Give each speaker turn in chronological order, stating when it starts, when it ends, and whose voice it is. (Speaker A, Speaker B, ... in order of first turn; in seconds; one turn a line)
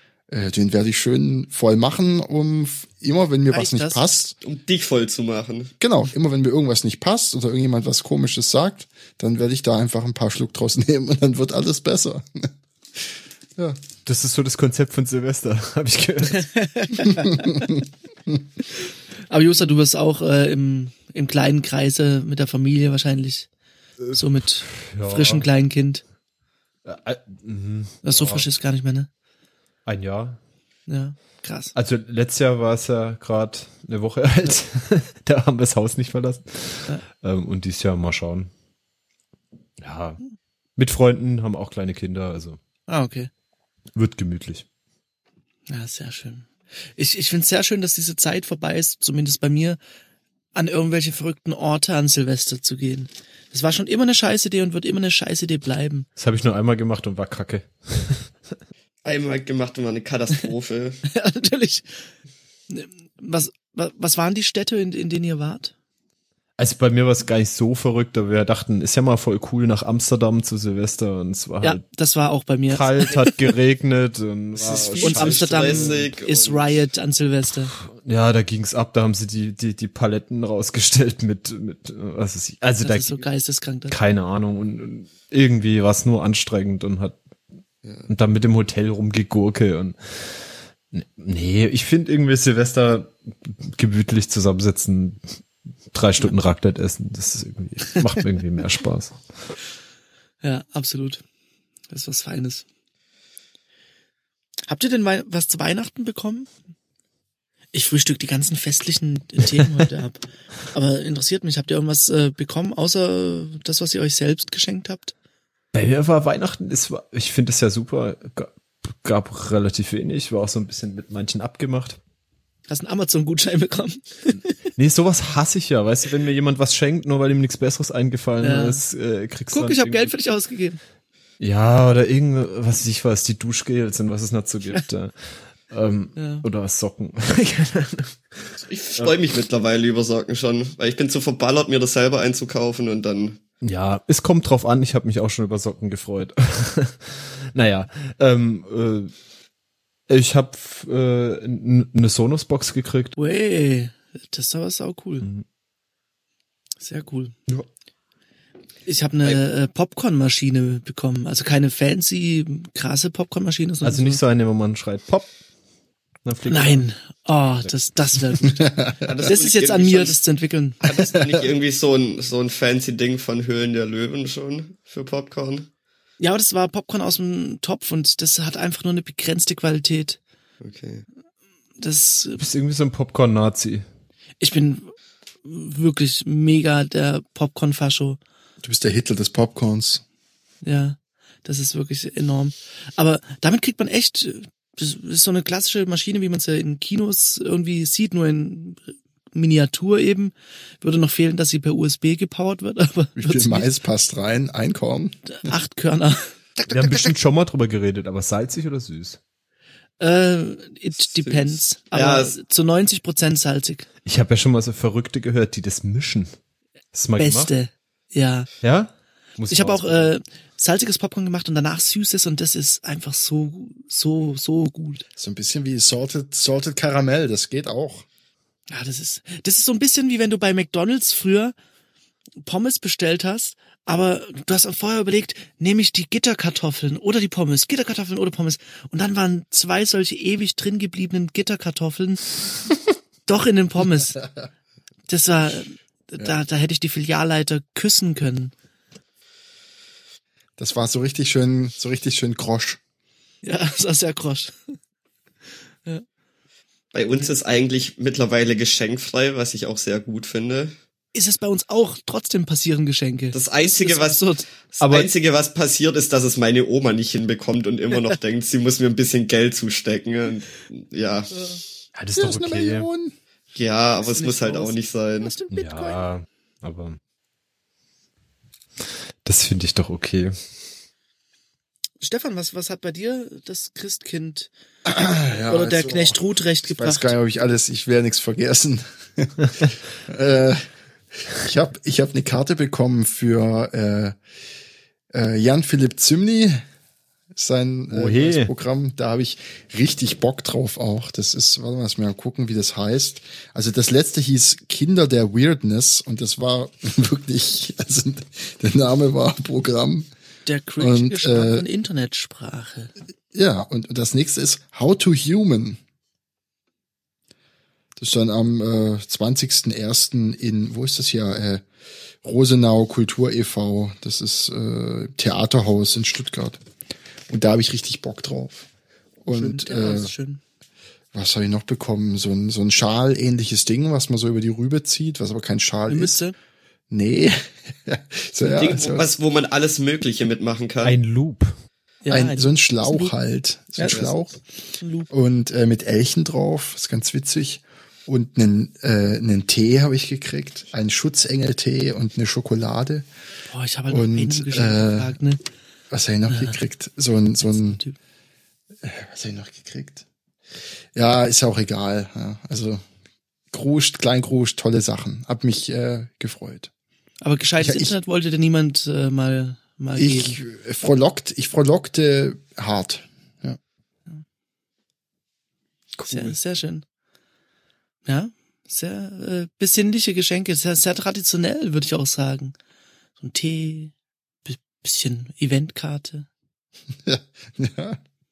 Speaker A: 0.3-4.3
Speaker B: 3.5-4.1
Speaker C: 4.4-5.7
Speaker A: 5.8-12.5
Speaker D: 14.0-16.5
Speaker B: 16.3-17.7
Speaker A: 17.2-18.4
Speaker B: 19.3-23.5
Speaker D: 24.0-25.5
Speaker B: 24.1-26.0
Speaker D: 26.8-28.5
Speaker B: 28.0-29.1
Speaker D: 29.9-30.4
Speaker B: 30.9-31.7
Speaker D: 31.7-38.5
Speaker D: 39.8-40.2
Speaker D: 40.8-42.6
Speaker B: 42.9-43.3
Speaker D: 43.9-44.6
Speaker B: 45.7-49.8
Speaker B: 50.5-56.1
Speaker D: 56.1-58.3
Speaker C: 59.0-61.0
Speaker B: 61.1-61.9
Speaker B: 62.7-65.7
Speaker D: 66.6-71.8
Speaker B: 71.6-73.4
Speaker D: 72.7-76.0
Speaker C: 74.5-76.8
Speaker B: 75.0-77.7
Speaker D: 77.8-83.2
Speaker B: 82.8-84.0
Speaker D: 83.9-87.2
Speaker C: 87.8-88.1
Speaker D: 88.1-95.2
Speaker D: 95.9-99.2
Speaker B: 100.4-101.2
Speaker B: 101.9-102.6
Speaker B: 104.7-106.5
Speaker B: 107.7-115.1
Speaker D: 115.7-122.0
Speaker B: 122.7-124.5
Speaker D: 124.8-130.1
Speaker B: 128.4-128.8
Speaker B: 129.5-130.8
Speaker D: 131.4-135.2
Speaker D: 135.7-139.2
Speaker B: 136.2-136.4
Speaker C: 138.7-143.4
Speaker D: 143.6-149.1
Speaker D: 150.1-153.1
Speaker B: 153.2-155.3
Speaker B: 156.8-157.3
Speaker B: 158.8-164.2
Speaker D: 163.8-165.3
Speaker D: 166.2-166.8
Speaker B: 166.5-168.7
Speaker A: 168.5-169.1
Speaker C: 169.0-170.2
Speaker B: 169.2-170.8
Speaker C: 170.8-175.7
Speaker A: 171.1-171.4
Speaker B: 176.2-180.2
Speaker C: 180.6-181.0
Speaker B: 181.8-182.4
Speaker D: 182.4-183.8
Speaker B: 184.4-184.9
Speaker B: 185.4-188.2
Speaker A: 188.6-190.0
Speaker B: 190.6-203.7
Speaker A: 203.2-205.2
Speaker B: 205.3-207.2
Speaker D: 206.7-209.2
Speaker B: 210.0-213.9
Speaker C: 211.0-212.3
Speaker D: 214.1-216.3
Speaker D: 216.9-217.5
Speaker B: 217.2-218.5
Speaker D: 218.6-220.1
Speaker B: 219.5-225.0
Speaker A: 225.2-228.0
Speaker B: 228.7-231.5
Speaker B: 232.4-242.3
Speaker B: 243.3-244.2
Speaker B: 245.1-248.5
Speaker A: 250.6-252.8
Speaker B: 253.4-254.6
Speaker C: 256.9-260.7
Speaker B: 261.1-264.4
Speaker C: 263.3-271.5
Speaker D: 264.8-265.1
Speaker B: 271.3-271.6
Speaker D: 271.9-272.9
Speaker A: 272.1-273.1
Speaker C: 273.5-275.3
Speaker B: 274.0-276.0
Speaker D: 275.5-277.0
Speaker D: 279.2-280.4
Speaker B: 282.0-284.5
Speaker A: 284.8-286.2
Speaker B: 285.5-287.1
Speaker A: 286.7-290.6
Speaker A: 291.2-294.2
Speaker A: 295.1-296.6
Speaker A: 297.3-310.1
Speaker D: 297.9-298.5
Speaker B: 310.4-312.9
Speaker A: 310.8-311.6
Speaker A: 313.3-315.8
Speaker A: 318.0-321.6
Speaker A: 322.2-326.6
Speaker A: 327.3-328.7
Speaker A: 329.2-330.1
Speaker B: 329.3-330.4
Speaker A: 331.1-336.2
Speaker B: 335.9-336.3
Speaker A: 336.9-339.1
Speaker C: 338.4-341.0
Speaker D: 340.8-341.5
Speaker B: 342.0-343.1
Speaker A: 342.1-344.3
Speaker B: 343.8-344.0
Speaker C: 343.8-344.1
Speaker B: 344.8-345.1
Speaker A: 345.1-353.1
Speaker B: 353.5-355.4
Speaker A: 353.9-355.1
Speaker A: 355.9-357.8
Speaker B: 356.3-356.6
Speaker B: 357.4-357.9
Speaker A: 358.8-360.0
Speaker A: 360.9-362.8
Speaker A: 363.5-366.7
Speaker B: 367.2-370.4
Speaker A: 367.6-367.9
Speaker A: 370.0-373.6
Speaker B: 376.1-376.8
Speaker B: 378.0-382.5
Speaker B: 383.2-383.9
Speaker B: 384.4-386.3
Speaker A: 387.0-388.0